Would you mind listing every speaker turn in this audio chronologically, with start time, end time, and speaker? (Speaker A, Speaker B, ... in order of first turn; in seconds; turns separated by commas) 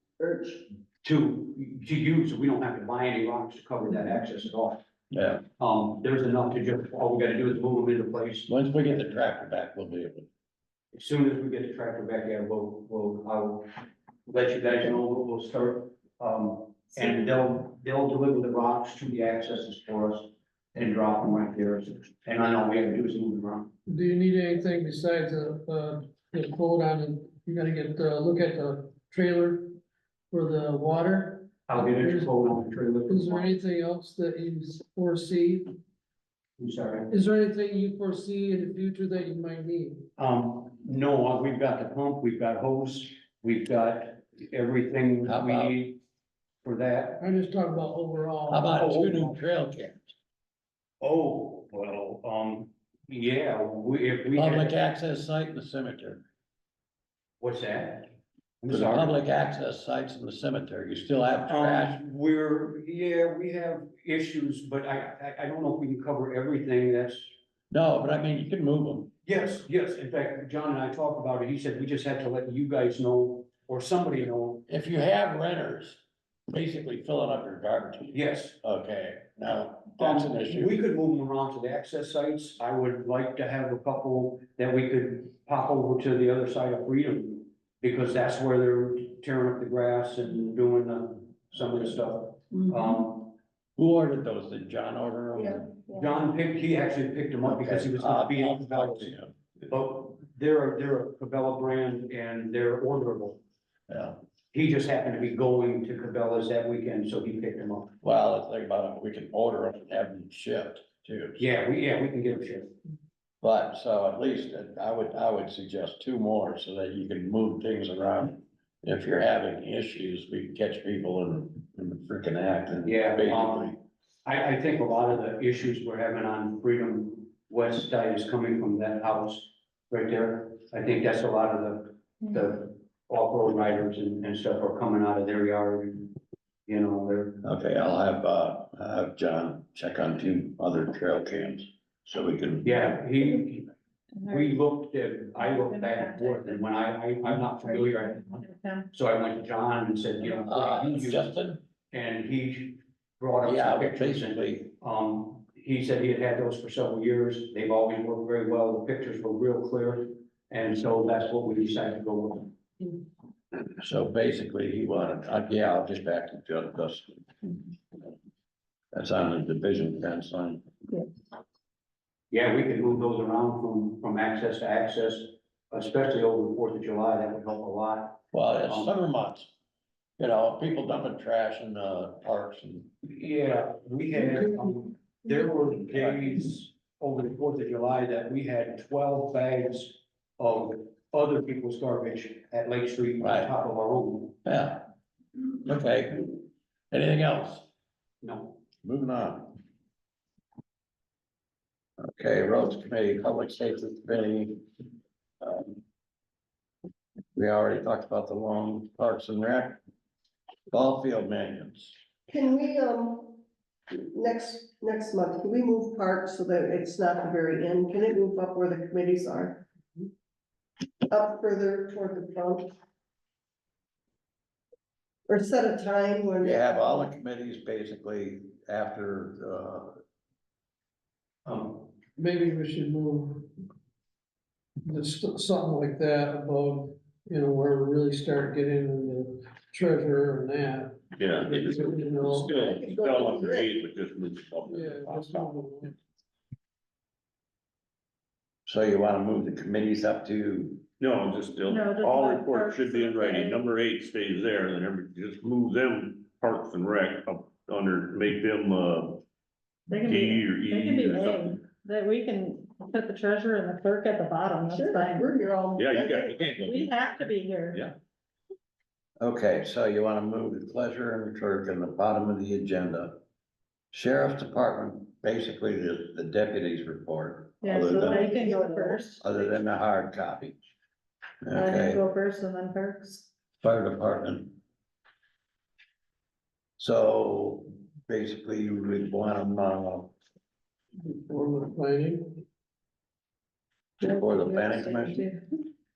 Speaker A: 0.2-0.6, Speaker B: 1.0-4.8, Speaker C: 5.1-5.4, Speaker B: 5.6-8.5, Speaker C: 8.5-10.3, Speaker B: 10.9-23.7, Speaker D: 23.9-29.8, Speaker D: 30.3-32.4, Speaker B: 31.7-33.5, Speaker D: 33.1-35.7, Speaker B: 36.6-37.1, Speaker D: 37.1-40.1, Speaker B: 40.2-46.0, Speaker C: 45.2-45.8, Speaker B: 46.6-47.3, Speaker D: 47.2-49.0, Speaker C: 48.5-50.1, Speaker B: 48.8-49.3, Speaker B: 51.0-54.8, Speaker C: 54.3-56.2, Speaker B: 57.4-59.2, Speaker C: 58.7-62.0, Speaker B: 61.5-67.3, Speaker C: 67.7-69.1, Speaker B: 69.3-74.7, Speaker C: 74.7-80.8, Speaker B: 78.1-78.6, Speaker B: 80.0-93.3, Speaker A: 92.5-92.9, Speaker C: 93.8-95.7, Speaker A: 95.4-96.1, Speaker B: 96.0-99.1, Speaker C: 97.4-99.3, Speaker B: 99.7-103.4, Speaker C: 103.9-104.2, Speaker B: 104.5-108.0, Speaker C: 108.0-111.5, Speaker B: 111.4-112.8, Speaker C: 113.4-123.8, Speaker B: 122.8-136.1, Speaker B: 136.7-137.4, Speaker C: 137.4-143.0, Speaker B: 142.6-143.7, Speaker B: 144.3-151.3, Speaker E: 145.4-146.6, Speaker E: 147.6-148.9, Speaker C: 150.2-151.6, Speaker B: 151.9-163.0, Speaker C: 153.4-154.6, Speaker C: 163.8-167.5, Speaker C: 168.9-170.6, Speaker B: 172.3-178.9, Speaker C: 178.3-179.5, Speaker C: 180.2-182.9, Speaker B: 183.0-194.4, Speaker C: 185.9-186.3, Speaker C: 193.2-193.5, Speaker C: 194.4-194.8, Speaker C: 195.6-197.7, Speaker B: 198.2-198.6, Speaker C: 198.8-199.6, Speaker C: 202.0-204.7, Speaker C: 205.4-205.8, Speaker C: 207.3-209.8, Speaker C: 210.7-211.9, Speaker A: 212.3-213.4, Speaker A: 213.9-219.7, Speaker A: 221.1-222.7, Speaker A: 225.3-226.7, Speaker C: 226.4-230.0, Speaker B: 231.5-231.8, Speaker D: 232.2-233.5, Speaker D: 234.8-242.6, Speaker F: 241.2-245.5, Speaker A: 242.6-243.8, Speaker D: 244.7-245.9, Speaker C: 248.7-250.8, Speaker F: 251.0-259.2, Speaker E: 251.7-253.6, Speaker E: 259.9-265.3, Speaker F: 259.9-261.6, Speaker A: 264.7-266.5, Speaker F: 265.8-268.0, Speaker E: 266.6-267.8, Speaker C: 269.2-273.2, Speaker C: 273.9-278.4, Speaker E: 277.6-279.2, Speaker A: 277.7-279.0, Speaker C: 279.2-280.6, Speaker C: 281.4-282.0, Speaker E: 281.5-283.3, Speaker C: 283.6-284.6, Speaker C: 286.8-290.1, Speaker D: 291.0-292.4, Speaker C: 294.0-295.2, Speaker E: 294.0-295.4